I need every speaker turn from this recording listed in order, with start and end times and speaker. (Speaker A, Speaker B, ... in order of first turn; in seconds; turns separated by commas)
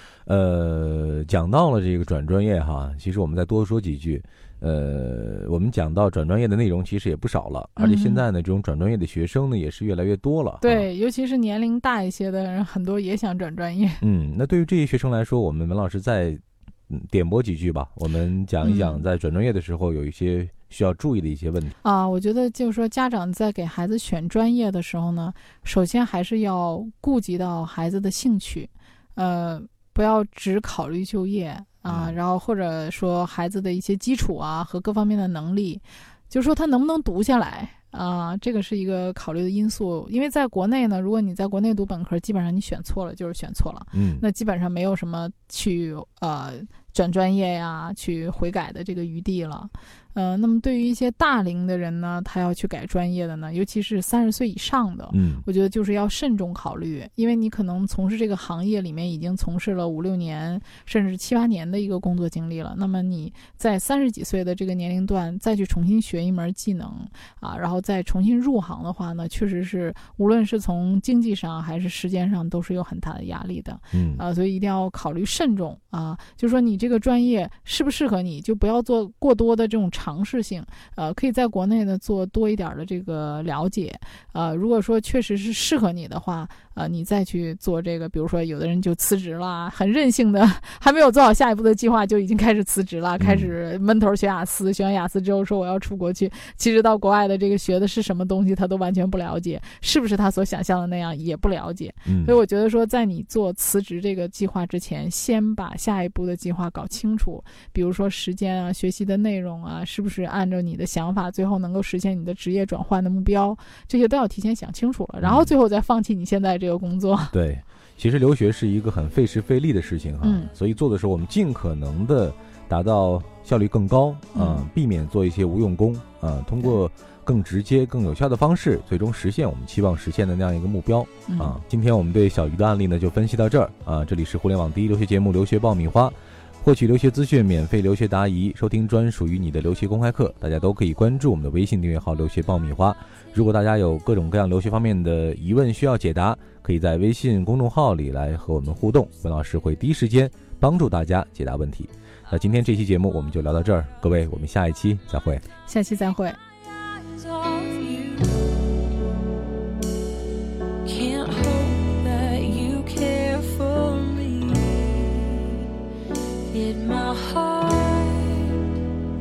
Speaker A: 0.3-10.9, Speaker B: 7.8-8.2, Speaker B: 10.6-14.0, Speaker A: 14.0-21.8, Speaker B: 18.6-19.0, Speaker B: 21.8-117.3, Speaker A: 31.9-32.2, Speaker A: 43.9-44.2, Speaker A: 55.1-55.5, Speaker A: 73.9-74.2, Speaker A: 93.2-93.5, Speaker A: 102.1-102.4, Speaker A: 115.2-115.5, Speaker A: 117.3-155.4, Speaker B: 120.2-120.5, Speaker B: 124.3-124.7, Speaker B: 131.3-131.6, Speaker B: 155.7-156.4, Speaker C: 156.8-158.6, Speaker C: 160.8-165.7, Speaker C: 166.5-168.8